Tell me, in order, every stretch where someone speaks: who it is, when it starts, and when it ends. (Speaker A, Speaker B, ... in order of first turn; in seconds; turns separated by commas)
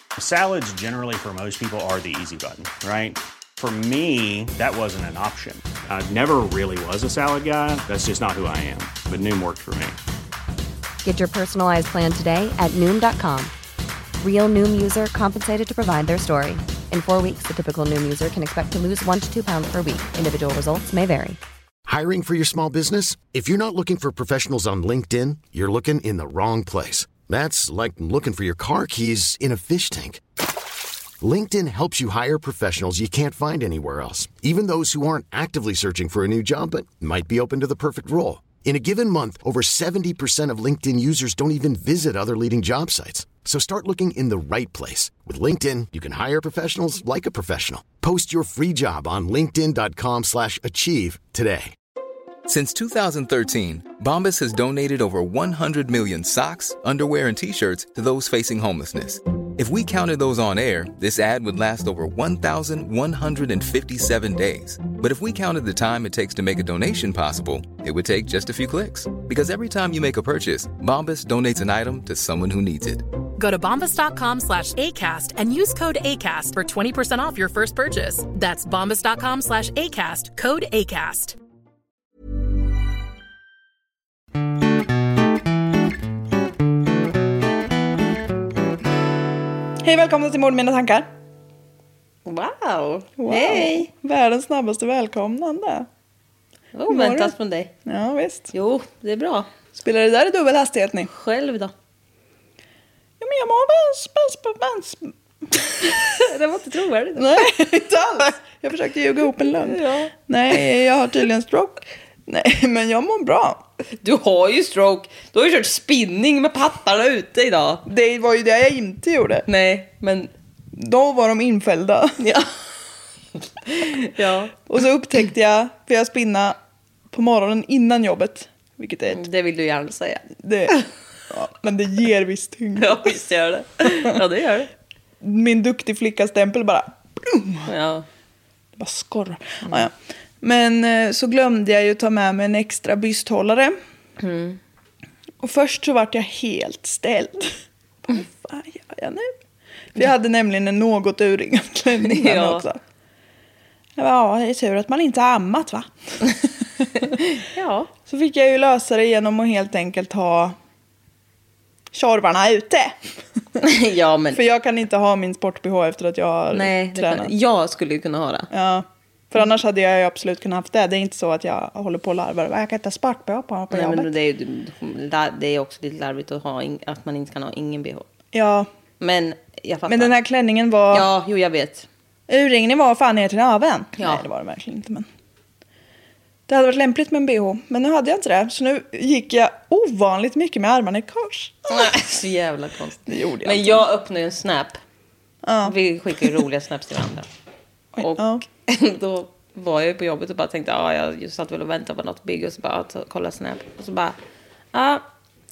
Speaker A: 0.2-10.0, Speaker B: 11.0-13.5, Speaker B: 14.2-21.4, Speaker C: 21.9-30.2, Speaker C: 31.2-51.7, Speaker D: 52.5-73.0, Speaker E: 73.4-81.3, Speaker F: 89.8-91.1, Speaker G: 92.2-93.9, Speaker F: 93.2-95.9, Speaker G: 96.7-97.7, Speaker F: 96.9-97.3, Speaker F: 97.8-98.5, Speaker G: 98.5-99.5, Speaker F: 99.8-101.1, Speaker G: 101.1-101.7, Speaker F: 103.2-105.1, Speaker G: 106.0-107.5, Speaker F: 107.2-113.6, Speaker G: 109.6-110.7, Speaker G: 114.0-117.8, Speaker F: 117.9-119.5, Speaker G: 119.5-120.3, Speaker F: 120.7-122.2, Speaker G: 122.2-122.5, Speaker G: 123.6-124.5, Speaker F: 124.7-126.6, Speaker F: 127.1-129.2, Speaker G: 129.1-130.8, Speaker F: 130.4-130.8, Speaker F: 131.3-133.1, Speaker G: 132.8-134.7, Speaker F: 135.2-137.7, Speaker G: 137.7-138.1, Speaker F: 138.8-143.8, Speaker G: 144.2-144.6, Speaker F: 145.4-149.3, Speaker F: 149.9-152.8, Speaker G: 152.0-152.6, Speaker F: 153.9-157.1, Speaker G: 157.2-157.9, Speaker F: 158.1-160.6, Speaker F: 161.9-163.0, Speaker G: 163.6-164.4, Speaker F: 164.3-167.3, Speaker G: 166.5-168.5, Speaker F: 168.5-174.1, Speaker G: 173.7-178.1, Speaker F: 178.3-178.7, Speaker G: 179.0-180.2, Speaker F: 179.9-181.1, Speaker G: 180.9-181.9, Speaker F: 182.3-185.1, Speaker G: 184.0-184.2, Speaker F: 186.5-191.9, Speaker G: 191.7-194.8, Speaker F: 193.1-193.8, Speaker F: 195.4-196.4, Speaker G: 195.6-197.3, Speaker F: 197.9-198.4, Speaker G: 198.0-204.2, Speaker G: 204.7-205.1